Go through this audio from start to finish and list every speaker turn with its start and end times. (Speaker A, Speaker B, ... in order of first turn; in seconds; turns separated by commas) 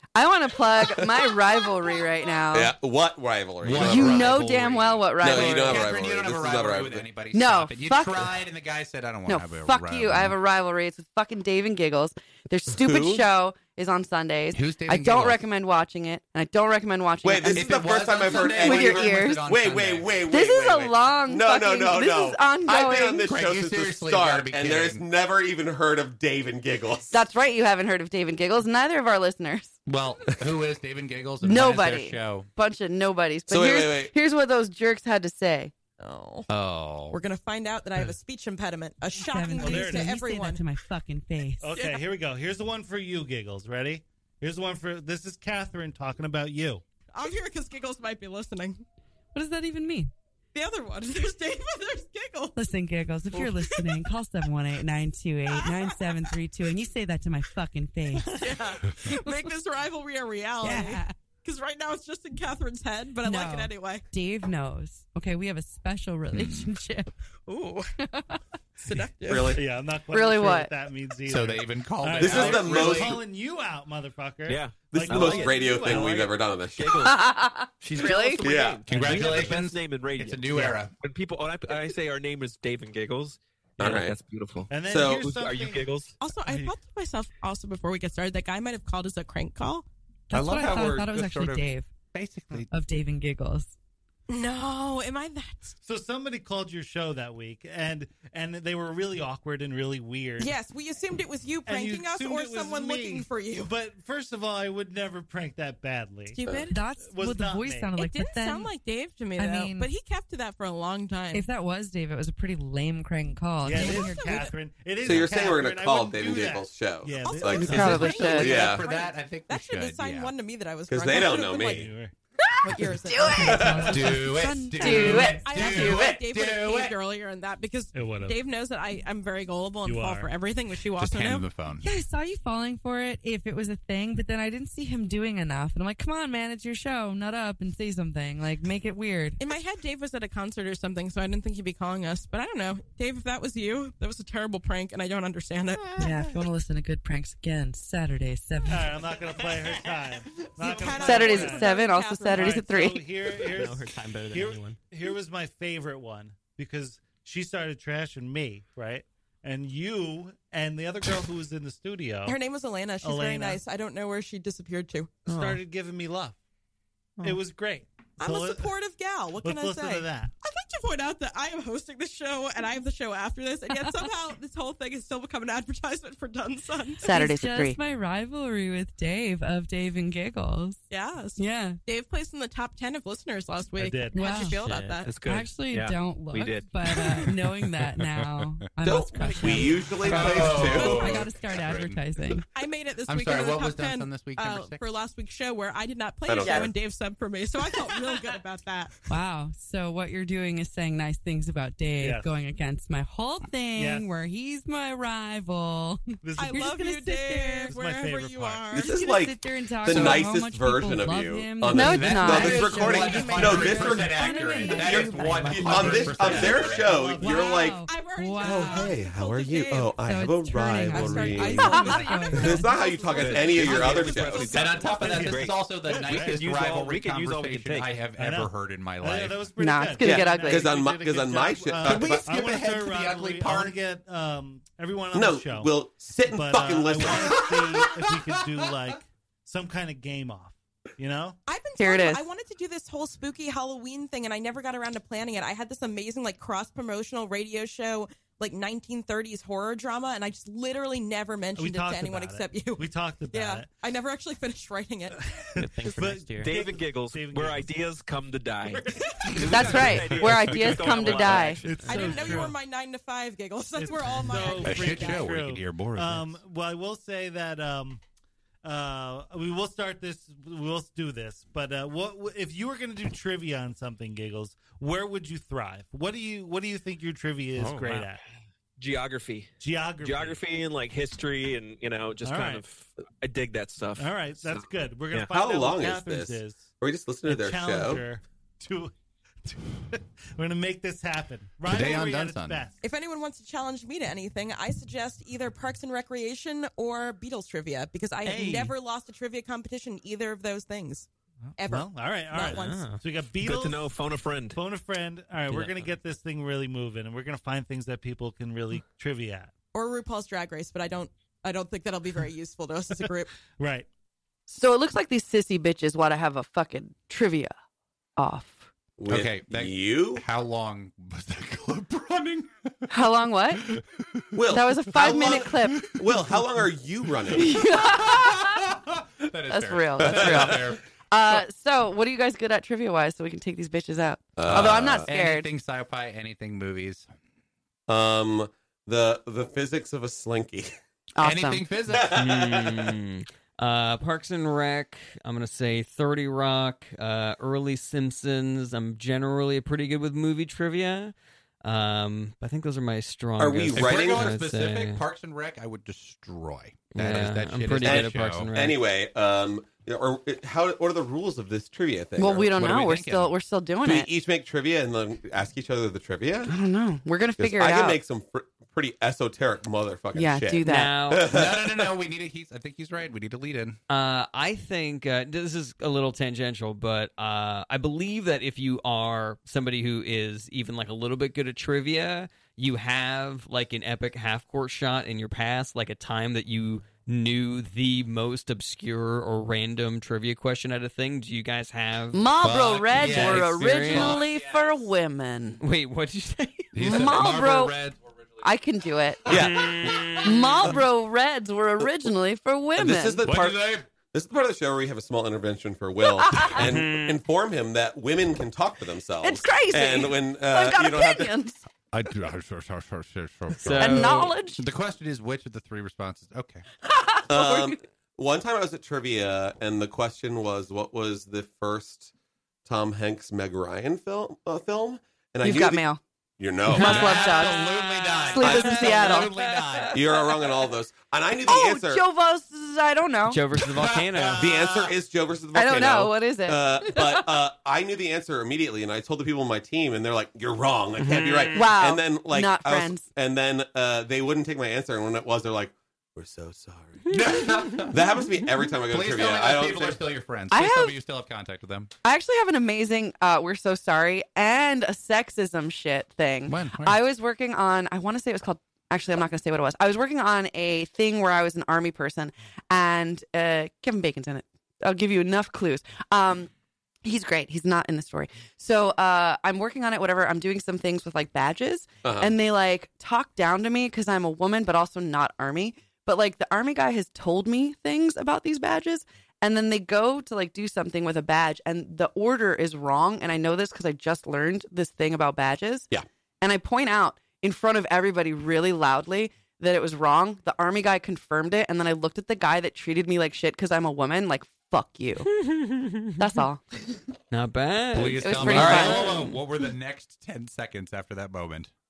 Speaker A: 0.1-2.7, Speaker B: 1.0-1.3, Speaker B: 2.5-4.4, Speaker C: 3.6-10.4, Speaker A: 3.7-5.9, Speaker B: 5.2-7.1, Speaker A: 7.3-8.3, Speaker A: 9.3-19.5, Speaker B: 12.8-13.2, Speaker C: 14.5-15.4, Speaker B: 17.2-27.2, Speaker C: 17.5-20.2, Speaker A: 20.3-23.2, Speaker C: 23.2-25.1, Speaker A: 27.1-29.8, Speaker C: 29.9-32.5, Speaker A: 31.4-35.7, Speaker B: 33.5-34.1, Speaker D: 36.0-36.5, Speaker C: 36.5-37.2, Speaker D: 37.1-40.7, Speaker E: 39.1-41.7, Speaker F: 39.6-40.1, Speaker F: 41.6-46.8, Speaker D: 41.7-42.0, Speaker D: 47.1-48.8, Speaker E: 49.3-50.1, Speaker D: 50.5-52.6, Speaker E: 52.6-59.5, Speaker D: 53.3-54.1, Speaker D: 55.5-56.4, Speaker D: 58.2-64.0, Speaker E: 60.6-61.1, Speaker E: 63.2-67.1, Speaker C: 66.3-66.7, Speaker D: 67.5-67.9, Speaker D: 68.8-69.6, Speaker B: 69.3-69.6, Speaker F: 69.5-76.4, Speaker A: 70.1-70.7, Speaker C: 71.3-73.2, Speaker B: 72.2-73.2, Speaker G: 74.5-76.0, Speaker B: 74.9-77.0, Speaker G: 76.7-77.2, Speaker A: 77.0-78.4, Speaker G: 77.8-86.2, Speaker B: 78.4-78.9, Speaker C: 78.9-81.0, Speaker B: 83.8-84.2, Speaker F: 84.7-86.8, Speaker B: 84.8-85.3, Speaker D: 86.2-89.9, Speaker E: 90.3-91.9, Speaker C: 90.3-92.7, Speaker E: 92.7-93.7, Speaker D: 94.3-95.7, Speaker F: 95.8-100.5, Speaker D: 100.4-103.7, Speaker F: 101.7-106.4, Speaker D: 106.3-106.8, Speaker B: 106.4-106.7, Speaker E: 106.7-108.7, Speaker F: 107.0-107.9, Speaker D: 108.0-111.5, Speaker E: 109.4-109.9, Speaker E: 111.3-114.5, Speaker F: 113.6-118.6, Speaker D: 113.7-114.5, Speaker B: 115.0-118.9, Speaker D: 117.2-121.9, Speaker A: 117.5-118.5, Speaker C: 117.8-120.3, Speaker B: 120.9-121.9, Speaker F: 121.5-122.1, Speaker D: 122.6-123.9, Speaker A: 123.1-123.7, Speaker E: 123.1-125.6, Speaker B: 123.4-124.2, Speaker C: 123.8-127.0, Speaker A: 124.8-125.4, Speaker D: 124.9-131.5, Speaker F: 127.9-128.4, Speaker F: 129.8-130.3, Speaker C: 130.9-131.9, Speaker E: 131.8-139.4, Speaker D: 139.4-146.1, Speaker E: 146.0-149.2, Speaker F: 148.7-162.4, Speaker D: 150.6-152.7, Speaker A: 151.0-153.1, Speaker G: 153.3-154.8, Speaker D: 162.3-165.3, Speaker F: 163.0-163.6, Speaker F: 165.3-166.4, Speaker G: 165.3-165.6, Speaker F: 167.2-168.7, Speaker D: 168.2-177.1, Speaker F: 169.4-170.3, Speaker E: 173.7-174.1, Speaker A: 177.0-177.8, Speaker E: 177.1-180.8, Speaker D: 180.9-185.3, Speaker E: 181.4-181.8, Speaker F: 183.8-184.4, Speaker E: 184.1-192.5, Speaker G: 184.6-187.2, Speaker C: 187.9-188.3, Speaker B: 188.8-191.3, Speaker C: 190.0-192.3, Speaker D: 190.8-191.2, Speaker D: 192.5-198.9, Speaker C: 193.1-194.8, Speaker B: 196.3-196.7, Speaker A: 196.4-196.7, Speaker E: 199.1-207.8, Speaker F: 202.0-202.3, Speaker F: 203.8-204.1, Speaker F: 206.2-206.6, Speaker D: 206.4-209.0, Speaker F: 207.7-208.8, Speaker B: 208.7-217.8, Speaker E: 208.7-219.0, Speaker C: 209.9-210.2, Speaker A: 211.7-212.7, Speaker C: 211.8-217.1, Speaker D: 212.6-214.6, Speaker F: 216.8-217.1, Speaker D: 217.2-219.9, Speaker B: 218.4-224.5, Speaker E: 219.9-222.8, Speaker D: 220.9-225.1, Speaker G: 223.2-228.0, Speaker C: 224.5-229.5, Speaker F: 224.8-226.5, Speaker F: 228.2-241.4, Speaker A: 229.6-230.7, Speaker B: 230.0-232.3, Speaker C: 231.8-233.8, Speaker B: 235.1-237.6, Speaker C: 237.1-238.7, Speaker D: 241.5-255.4, Speaker A: 241.8-242.3, Speaker F: 251.6-253.7, Speaker F: 255.2-257.8, Speaker G: 255.6-262.5, Speaker F: 258.7-262.6, Speaker A: 259.5-261.6, Speaker D: 261.7-265.4, Speaker F: 263.8-268.0, Speaker C: 264.6-266.4, Speaker F: 268.6-278.2, Speaker G: 277.6-278.1, Speaker G: 278.8-285.3, Speaker F: 279.6-280.4, Speaker F: 282.2-282.6, Speaker F: 284.0-286.7, Speaker B: 285.3-288.0, Speaker F: 287.2-288.9, Speaker F: 289.4-292.8, Speaker C: 291.6-292.7, Speaker D: 292.8-302.9, Speaker F: 298.2-298.8, Speaker F: 301.4-309.5, Speaker G: 302.4-304.6, Speaker G: 305.5-305.9, Speaker D: 309.7-313.3, Speaker F: 313.5-313.9, Speaker A: 314.5-317.5, Speaker A: 318.2-318.7, Speaker B: 319.0-320.2, Speaker C: 319.1-322.9, Speaker A: 322.9-323.6, Speaker C: 323.6-324.2, Speaker B: 324.3-327.6, Speaker A: 324.5-325.9, Speaker C: 325.8-326.6, Speaker A: 327.4-328.6, Speaker C: 327.4-331.4, Speaker A: 329.5-335.5, Speaker B: 330.0-330.8, Speaker B: 334.4-335.1, Speaker C: 334.4-337.1, Speaker B: 337.9-340.7, Speaker A: 341.2-341.6, Speaker C: 341.2-342.2, Speaker B: 341.9-342.9, Speaker H: 342.1-355.0, Speaker B: 353.4-354.3, Speaker C: 353.7-358.5, Speaker H: 356.9-358.8, Speaker B: 357.8-362.8, Speaker A: 362.2-364.1, Speaker C: 362.6-363.3, Speaker B: 363.8-366.5, Speaker A: 366.5-368.0, Speaker B: 367.4-371.9, Speaker A: 370.1-370.9, Speaker H: 370.6-371.3, Speaker C: 371.3-373.8, Speaker H: 373.9-392.3, Speaker A: 392.1-395.6, Speaker C: 392.4-394.9, Speaker H: 392.9-394.3, Speaker H: 395.6-397.0, Speaker C: 396.7-398.4, Speaker A: 396.8-397.8, Speaker A: 398.4-399.4, Speaker B: 399.3-400.7, Speaker H: 399.3-400.3, Speaker C: 399.3-400.1, Speaker A: 400.2-403.2, Speaker B: 402.8-411.4, Speaker C: 403.2-403.9, Speaker A: 406.2-406.5, Speaker H: 406.5-407.2, Speaker A: 409.2-411.6, Speaker C: 411.9-416.6, Speaker H: 413.6-414.3, Speaker A: 413.8-414.6, Speaker A: 416.9-417.8, Speaker B: 417.3-422.1, Speaker B: 422.7-425.8, Speaker A: 425.4-426.0, Speaker B: 426.4-427.3, Speaker C: 426.7-429.9, Speaker A: 426.7-427.6, Speaker H: 427.6-428.5, Speaker A: 428.3-429.3, Speaker B: 428.4-429.2, Speaker H: 429.4-430.5, Speaker B: 429.9-432.0, Speaker A: 431.5-433.4, Speaker H: 433.3-434.6, Speaker C: 433.5-434.9, Speaker B: 434.4-450.0, Speaker A: 435.5-437.3, Speaker H: 441.0-441.7, Speaker A: 441.5-443.1, Speaker C: 447.1-448.0, Speaker H: 447.2-447.9, Speaker C: 448.9-451.9, Speaker A: 450.5-451.0, Speaker A: 452.0-466.5, Speaker C: 456.5-457.0, Speaker A: 467.0-485.9, Speaker B: 472.0-472.3, Speaker A: 486.4-495.3, Speaker H: 495.3-496.4, Speaker A: 496.2-496.6, Speaker H: 497.3-499.4, Speaker C: 497.9-501.7, Speaker A: 498.2-499.3